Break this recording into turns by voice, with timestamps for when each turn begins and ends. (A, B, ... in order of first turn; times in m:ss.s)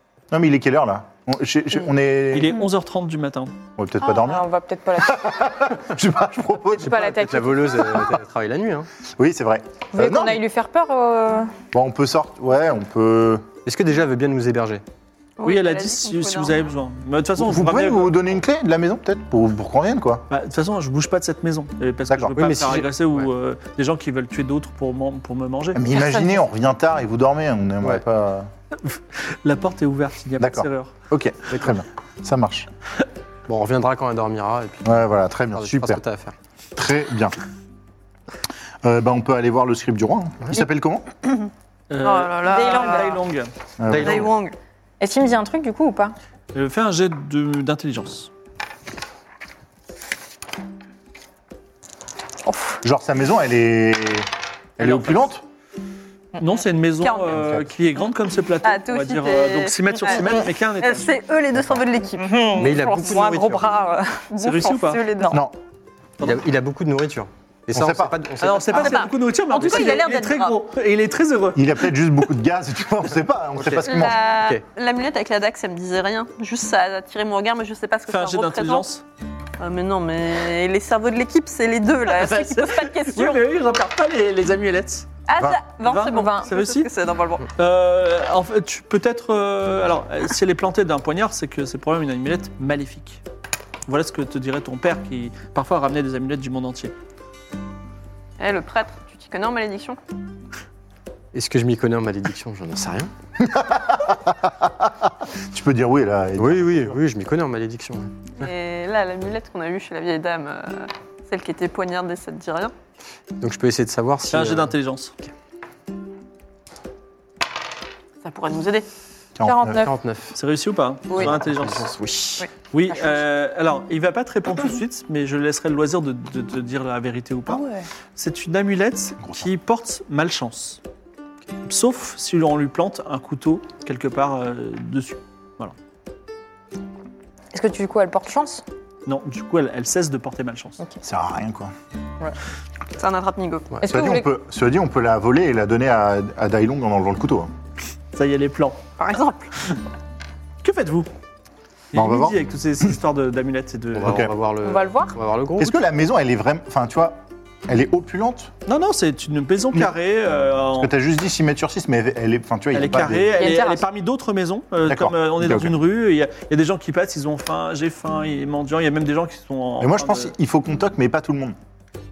0:00.3-0:02.6 A
0:02.3-0:03.5 B
0:03.8-0:04.5 A
0:04.0-0:05.4 C
0:05.0-0:07.2 A
0:06.8-0:08.9 D
0:06.8-0:07.9 C
0:09.2-0:10.4 A
0:10.0-0:11.5 C
0:11.7-0:13.5 A
0:13.6-0:14.8 D
0:15.4-0:16.7 E
0:15.4-0:18.3 B
0:17.4-0:20.3 A
0:20.3-0:25.9 B
0:22.4-0:23.3 D
0:25.7-0:28.5 A
0:25.9-0:26.4 C
0:28.8-0:30.9 B
0:30.4-0:32.7 A
0:33.5-0:34.9 D
0:34.8-0:36.0 A
0:35.6-0:36.3 D
0:36.8-0:37.4 A
0:38.8-0:41.1 A
0:41.9-0:43.5 B
0:42.0-0:43.2 E
0:42.4-0:43.2 C
0:43.8-0:44.3 A
0:43.9-0:44.3 D
0:44.0-0:44.6 E
0:45.0-0:46.2 C
0:46.5-0:48.3 B
0:52.4-0:52.8 C
0:52.8-0:55.4 A
0:54.8-0:55.3 B
0:56.4-1:01.1 B
0:57.0-0:57.4 E
0:57.3-0:57.6 A
0:58.6-1:02.5 E
1:02.2-1:05.4 C
1:02.6-1:03.7 D
1:04.4-1:05.0 B
1:04.5-1:05.4 E
1:05.3-1:05.6 A
1:06.2-1:09.0 D
1:07.7-1:08.2 A
1:08.4-1:11.8 B
1:08.6-1:10.6 E
1:11.6-1:14.3 A
1:13.6-1:14.6 D
1:13.8-1:18.9 E
1:18.1-1:19.0 B
1:19.6-1:23.4 E
1:22.1-1:25.1 B
1:25.3-1:27.5 E
1:25.8-1:26.9 B
1:26.1-1:26.5 C
1:27.6-1:33.2 B
1:33.9-1:36.9 B
1:38.4-1:40.0 E
1:41.3-1:43.1 D
1:43.4-1:47.0 A
1:46.4-1:48.5 D
1:48.4-1:52.7 E
1:53.4-1:54.7 D
1:54.3-1:55.1 B
1:58.2-1:58.9 E
1:59.4-1:59.9 A
1:59.4-1:59.9 C
1:59.7-2:00.4 D
2:00.3-2:01.9 B
2:01.1-2:02.5 D
2:02.7-2:07.6 B
2:07.5-2:07.9 C
2:08.2-2:10.8 B
2:09.2-2:09.5 A
2:11.7-2:15.7 B
2:17.5-2:18.6 C
2:19.1-2:20.8 B
2:21.0-2:21.7 A
2:23.0-2:23.8 E
2:23.8-2:24.3 C
2:23.8-2:27.5 A
2:28.1-2:28.8 B
2:29.0-2:29.5 E
2:30.6-2:31.1 B
2:31.9-2:34.2 B
2:31.9-2:32.4 A
2:34.0-2:35.8 D
2:34.0-2:34.3 A
2:34.6-2:35.2 C
2:35.6-2:38.5 A
2:38.7-2:40.9 B
2:40.8-2:43.4 A
2:42.7-2:50.3 B
2:43.4-2:43.8 C
2:44.9-2:45.8 A
2:49.8-2:51.6 A